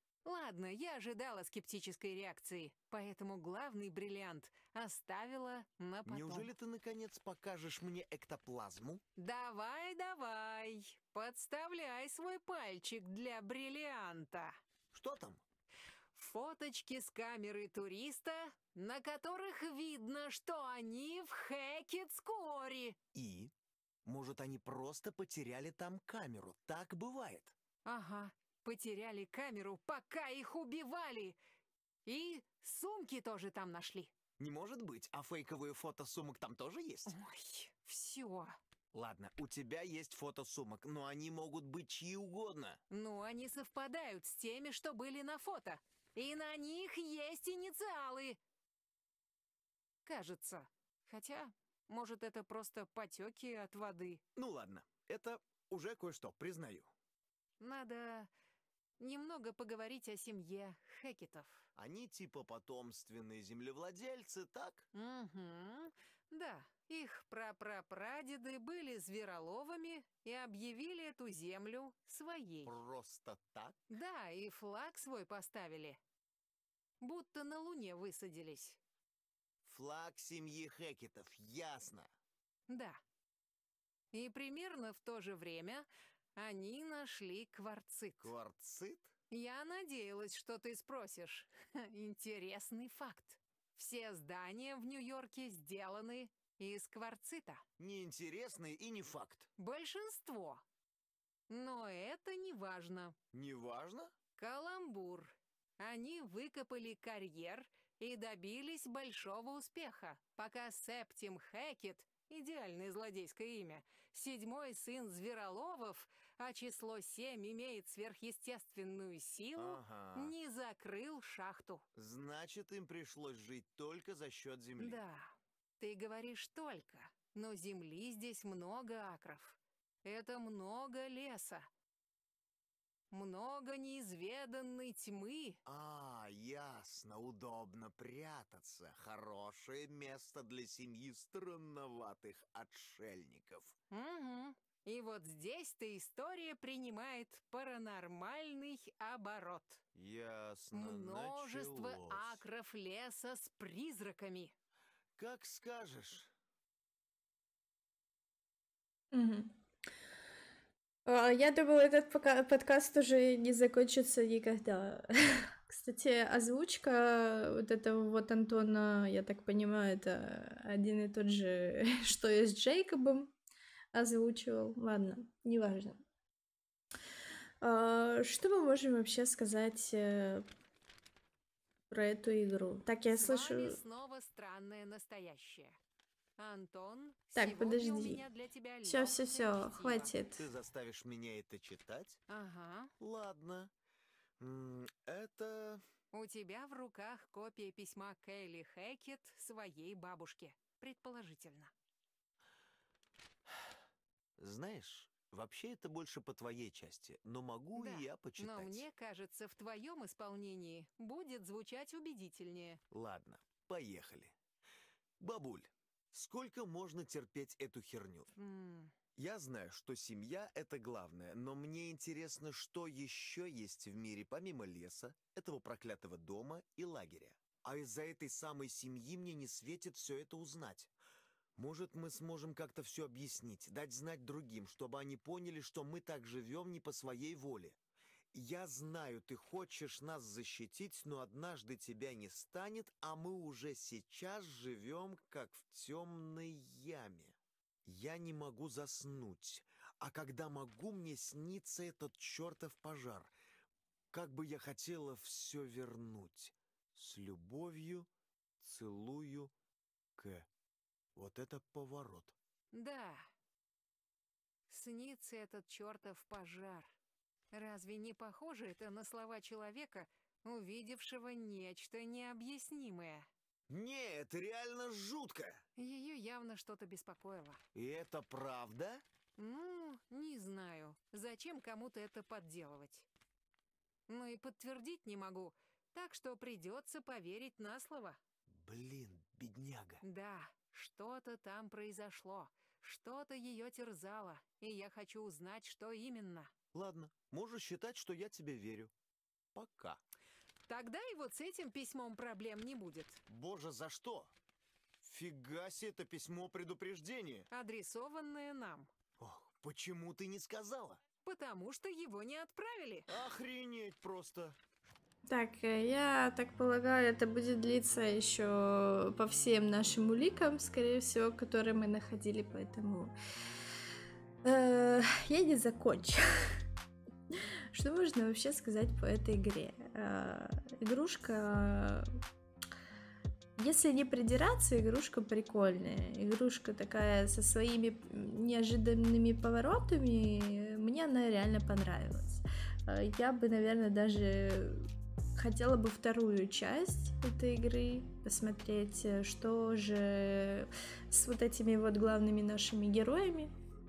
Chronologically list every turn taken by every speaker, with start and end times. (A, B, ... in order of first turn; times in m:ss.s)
0:00.2-0:06.5 A
0:06.0-0:09.0 B
0:09.2-0:14.6 A
0:14.9-0:15.4 B
0:16.1-0:23.0 A
0:23.1-0:23.5 B
0:24.0-0:27.6 B
0:27.9-0:31.4 A
0:32.1-0:34.1 A
0:34.4-0:37.2 B
0:37.1-0:38.6 A
0:38.9-0:42.8 B
0:42.9-0:48.4 A
0:50.0-0:54.2 A
0:54.4-0:56.9 B
0:57.6-0:58.3 A
0:59.0-1:01.7 A
1:01.8-1:04.9 B
1:04.9-1:12.8 A
1:12.6-1:13.8 B
1:13.9-1:16.0 A
1:17.0-1:18.8 A
1:19.6-1:22.1 B
1:22.7-1:23.0 A
1:24.1-1:28.3 A
1:28.2-1:29.1 B
1:29.3-1:37.6 A
1:37.8-1:39.5 B
1:39.6-1:40.6 A
1:41.5-1:43.2 A
1:43.3-1:44.2 B
1:44.4-2:01.8 A
1:59.6-2:00.4 B
2:02.0-2:05.0 B
2:04.8-2:11.7 A
2:13.1-2:15.6 A
2:15.6-2:23.7 B
2:23.9-2:29.8 A
2:30.0-2:32.4 B
2:30.7-2:34.5 A
2:35.2-2:36.3 B
2:39.1-2:39.5 C
2:41.1-2:53.3 C
2:53.9-2:56.0 C
2:57.6-3:00.5 C
3:01.9-3:03.8 C
3:03.1-3:05.8 A
3:06.4-3:10.2 A
3:07.4-3:08.2 C
3:08.8-3:10.5 C
3:10.4-3:12.2 B
3:12.3-3:12.9 A
3:13.0-3:13.7 B
3:14.4-3:15.8 B
3:16.1-3:21.7 A
3:24.4-3:28.9 B
3:27.8-3:32.8 A
3:32.9-3:34.4 B
3:35.2-3:38.3 B
3:38.4-3:38.9 A
3:39.2-3:50.9 B
3:51.6-3:57.8 B
3:58.3-4:13.3 B
4:14.1-4:18.1 B
4:18.6-4:19.5 B
4:20.2-4:20.5 B
4:21.2-4:22.4 B
4:22.7-4:23.3 A
4:24.7-4:26.9 A
4:27.5-4:33.3 A
4:33.7-4:35.6 B
4:35.8-4:37.6 A
4:37.8-4:39.0 B
4:39.4-4:43.1 A
4:44.1-4:48.2 A
4:48.5-4:50.0 B
4:50.0-4:56.5 A
4:56.7-4:58.9 B
4:59.6-5:00.0 B
5:00.7-5:03.2 A
5:03.3-5:04.3 B
5:05.0-5:07.5 B
5:07.5-5:08.9 A
5:09.2-5:11.0 B
5:11.2-5:13.1 A
5:13.1-5:14.6 B
5:15.3-5:23.1 C
5:24.4-5:26.6 C
5:27.7-5:32.1 C
5:33.6-5:53.5 C